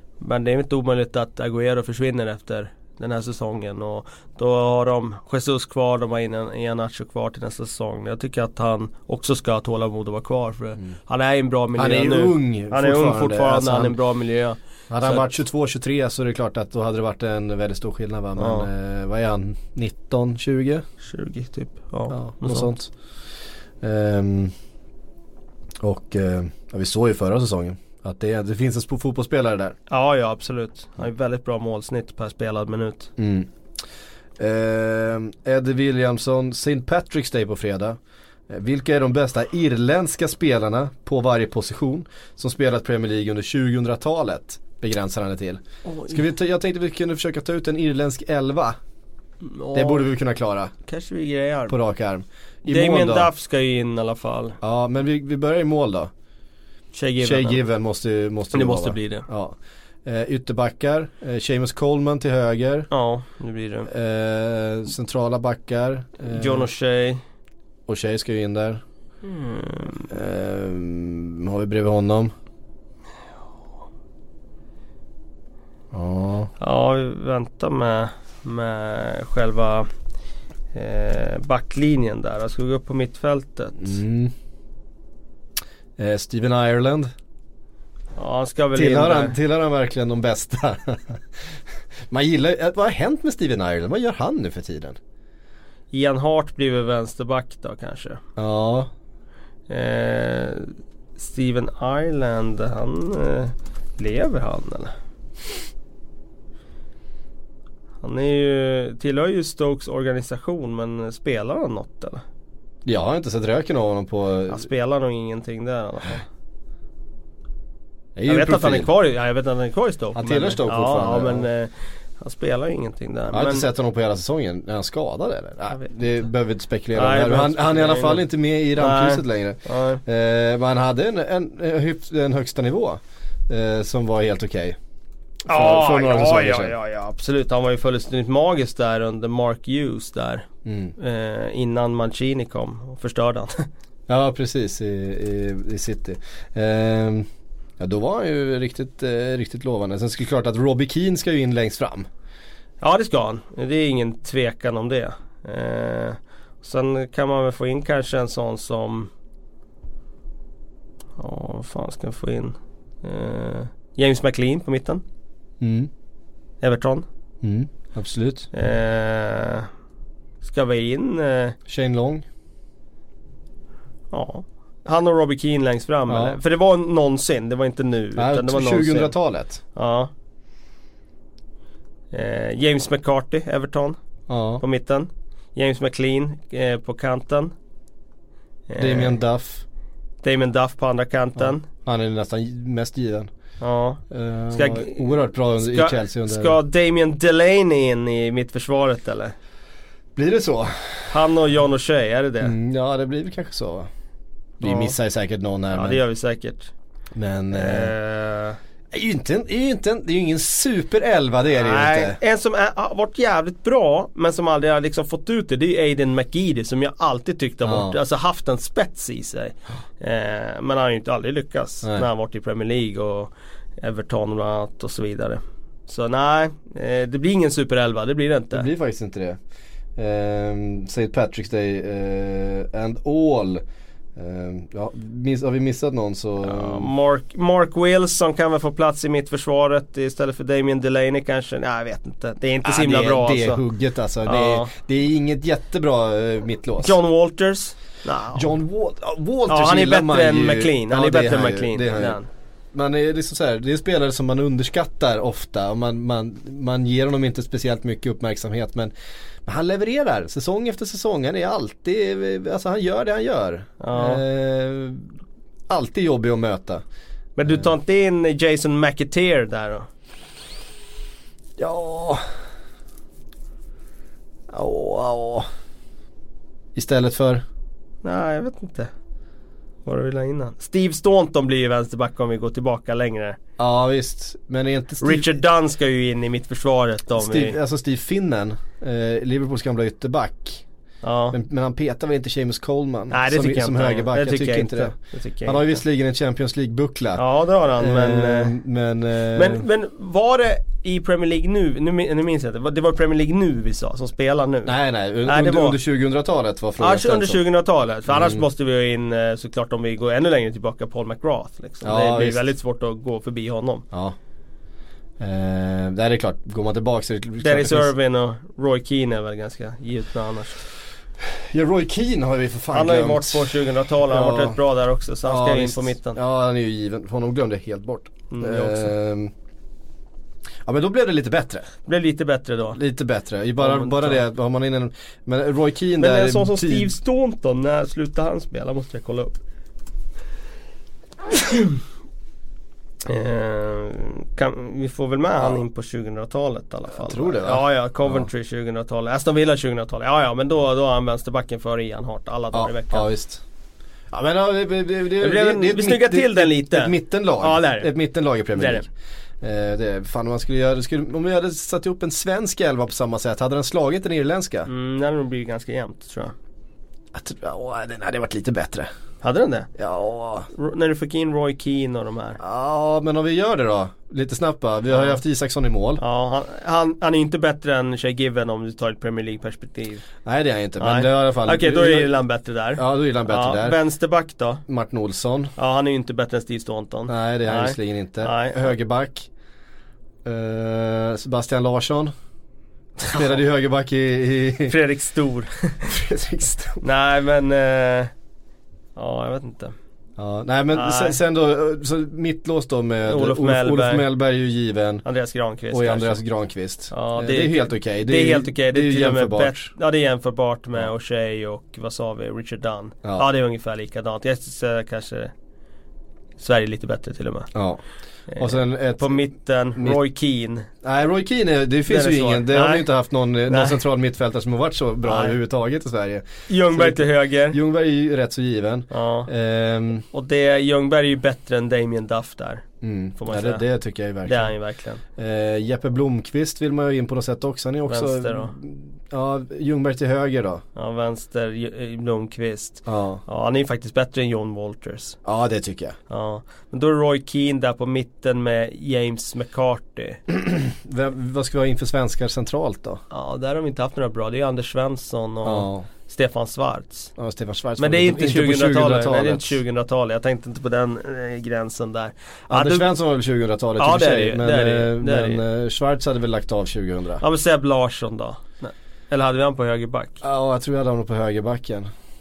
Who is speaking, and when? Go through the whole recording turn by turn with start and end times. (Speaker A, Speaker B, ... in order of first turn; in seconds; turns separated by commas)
Speaker A: 0.2-15.3, Speaker B: 11.8-13.9, Speaker B: 14.9-20.8, Speaker A: 18.4-18.7, Speaker A: 21.0-22.7, Speaker B: 22.1-22.9, Speaker B: 23.8-24.5, Speaker B: 25.8-29.8, Speaker A: 29.9-33.1, Speaker B: 33.2-33.5, Speaker B: 34.4-38.0, Speaker B: 38.5-48.8, Speaker A: 45.9-46.2, Speaker A: 49.4-50.1, Speaker B: 49.7-50.7, Speaker A: 50.9-51.8, Speaker B: 51.7-53.3, Speaker A: 52.6-54.6, Speaker B: 54.6-56.1, Speaker A: 56.9-57.6, Speaker B: 57.2-62.9, Speaker A: 58.5-59.2, Speaker A: 62.9-63.9, Speaker B: 63.9-66.7, Speaker A: 66.3-67.2, Speaker B: 67.9-68.8, Speaker A: 69.2-70.1, Speaker B: 70.1-72.3, Speaker B: 75.9-76.5, Speaker A: 76.6-79.9, Speaker A: 80.7-84.0, Speaker B: 83.8-84.3, Speaker B: 86.0-87.1, Speaker A: 88.2-89.4, Speaker B: 88.7-91.2, Speaker B: 92.1-95.0, Speaker A: 95.9-98.2, Speaker B: 98.4-98.9, Speaker A: 99.7-104.9, Speaker A: 108.0-112.2, Speaker B: 112.8-114.6, Speaker A: 114.5-116.2, Speaker B: 118.2-118.9, Speaker A: 118.3-123.7, Speaker B: 120.1-121.5, Speaker B: 123.3-134.8, Speaker A: 126.9-128.2, Speaker A: 128.8-130.0, Speaker A: 135.5-140.5, Speaker B: 135.5-136.7, Speaker B: 140.7-140.9, Speaker A: 141.0-143.7, Speaker B: 144.1-147.2, Speaker B: 147.8-152.1, Speaker A: 152.8-159.1, Speaker A: 161.2-165.0, Speaker B: 165.6-165.9, Speaker A: 166.6-167.0, Speaker B: 167.4-168.5, Speaker A: 168.5-169.7, Speaker A: 170.4-171.6, Speaker B: 171.7-172.2, Speaker A: 174.1-179.1, Speaker B: 176.1-176.4, Speaker B: 178.2-179.6, Speaker A: 179.7-180.1, Speaker A: 182.1-184.0, Speaker B: 184.3-184.6, Speaker A: 184.6-187.5, Speaker A: 188.7-189.2, Speaker B: 188.8-189.6, Speaker A: 190.2-191.6, Speaker B: 191.4-193.3, Speaker A: 193.6-194.0, Speaker B: 194.1-196.6, Speaker A: 194.5-199.3, Speaker B: 200.2-201.2, Speaker A: 201.1-202.5, Speaker B: 202.4-203.9, Speaker B: 204.6-206.0, Speaker A: 204.6-204.9, Speaker A: 205.7-206.7, Speaker B: 207.2-207.9, Speaker A: 207.5-208.6, Speaker B: 208.9-212.2, Speaker A: 211.6-228.7, Speaker B: 217.6-217.9, Speaker B: 228.5-229.4, Speaker B: 230.0-233.6, Speaker B: 234.2-236.9, Speaker A: 236.4-243.6, Speaker B: 242.6-246.9, Speaker A: 244.2-244.7, Speaker A: 246.8-248.5, Speaker B: 248.3-252.2, Speaker A: 249.5-252.3, Speaker B: 252.7-258.9, Speaker B: 259.4-265.1, Speaker A: 263.8-264.2, Speaker B: 265.7-266.8, Speaker A: 267.4-269.9, Speaker B: 271.6-272.3, Speaker B: 274.5-275.4, Speaker B: 276.8-277.4, Speaker A: 278.0-278.9, Speaker A: 279.8-283.4, Speaker B: 283.6-285.3, Speaker A: 285.0-287.6, Speaker B: 287.1-290.6, Speaker A: 291.0-291.4, Speaker B: 291.3-297.2, Speaker A: 293.1-295.8, Speaker A: 297.2-298.6, Speaker B: 297.8-299.6, Speaker A: 299.3-305.8, Speaker B: 304.6-307.4, Speaker A: 306.8-313.8, Speaker B: 308.1-308.4, Speaker B: 311.8-312.4, Speaker B: 315.2-317.9, Speaker A: 317.4-320.6, Speaker B: 321.2-324.6, Speaker A: 322.7-326.2, Speaker B: 325.2-329.3, Speaker A: 328.3-328.9, Speaker B: 330.6-331.7, Speaker A: 331.9-332.8, Speaker B: 332.7-336.9, Speaker A: 333.6-334.2, Speaker A: 336.0-339.3, Speaker A: 341.3-341.8, Speaker A: 343.1-353.1, Speaker B: 346.9-348.3, Speaker B: 352.5-353.4, Speaker B: 354.1-358.9, Speaker A: 355.2-357.9, Speaker A: 358.6-358.9, Speaker B: 359.4-364.7, Speaker A: 364.7-366.3, Speaker B: 367.1-368.9, Speaker A: 369.2-369.7, Speaker B: 369.8-370.5, Speaker A: 370.6-372.4, Speaker B: 372.4-376.0, Speaker A: 374.9-375.2, Speaker A: 376.0-380.1, Speaker B: 380.2-382.1, Speaker A: 380.8-384.6, Speaker B: 382.8-383.8, Speaker B: 384.7-385.5, Speaker A: 385.6-388.7, Speaker B: 387.1-389.3, Speaker B: 390.2-392.1, Speaker B: 393.1-394.8, Speaker A: 394.7-395.9, Speaker B: 395.9-396.8, Speaker A: 396.8-398.1, Speaker A: 398.9-399.7, Speaker B: 400.2-405.0, Speaker A: 400.7-401.2, Speaker A: 403.1-404.0, Speaker A: 405.0-406.2, Speaker B: 405.7-409.7, Speaker A: 406.9-415.3, Speaker A: 416.4-417.5, Speaker B: 417.5-417.8, Speaker A: 418.3-420.7, Speaker B: 418.4-419.2, Speaker B: 420.8-430.0, Speaker A: 421.9-422.9, Speaker A: 423.5-423.8, Speaker A: 425.1-425.4, Speaker A: 426.5-427.6, Speaker A: 428.9-429.3, Speaker A: 430.1-432.6, Speaker B: 432.8-434.5, Speaker A: 433.2-433.6, Speaker A: 434.2-435.0, Speaker B: 435.1-440.6, Speaker A: 437.9-438.5, Speaker A: 440.8-445.2, Speaker B: 442.9-443.2, Speaker B: 445.2-445.9, Speaker A: 446.1-450.2, Speaker B: 450.3-453.0, Speaker A: 453.1-457.1, Speaker B: 455.4-455.9, Speaker B: 457.2-459.6, Speaker A: 457.8-462.9, Speaker B: 462.5-467.2, Speaker A: 463.8-465.4, Speaker A: 467.2-470.2, Speaker B: 470.2-471.9